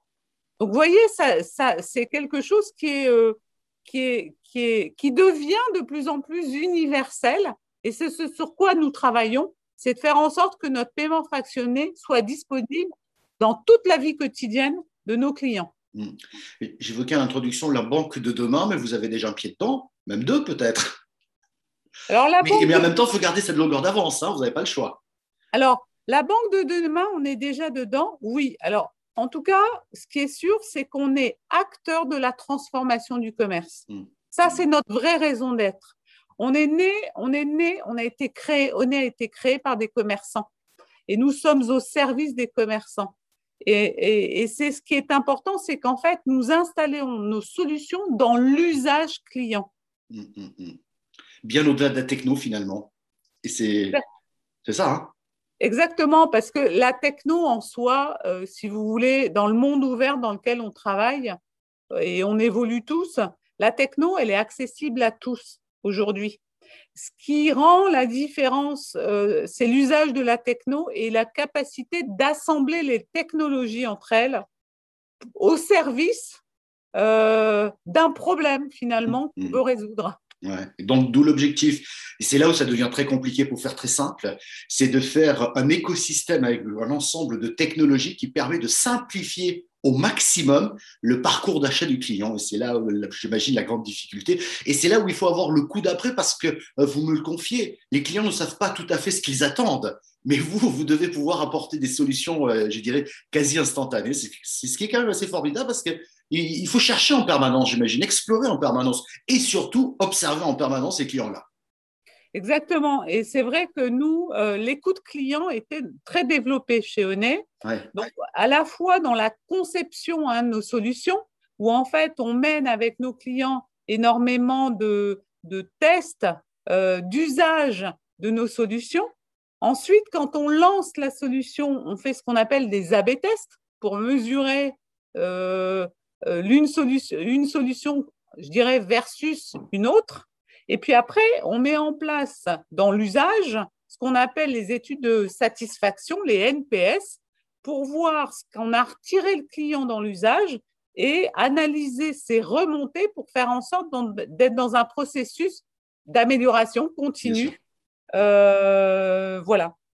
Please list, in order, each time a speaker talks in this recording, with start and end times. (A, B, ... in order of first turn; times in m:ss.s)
0:00.6-0:15.7 A
0:15.9-0:21.0 B
0:22.1-0:22.9 A
0:22.4-0:25.0 B
0:25.5-0:40.5 A
0:33.9-0:34.6 B
0:41.1-0:49.7 A
0:50.1-0:50.8 B
0:51.4-0:52.9 B
0:53.4-0:54.0 B
0:54.6-0:55.1 B
0:55.6-1:01.4 A
1:01.9-1:06.4 A
1:07.0-1:14.4 A
1:15.4-1:16.4 A
1:16.9-1:20.2 A
1:20.4-1:51.4 B
1:52.3-2:09.1 A
2:09.6-2:37.6 A
2:37.2-2:37.5 B
2:38.1-2:39.7 A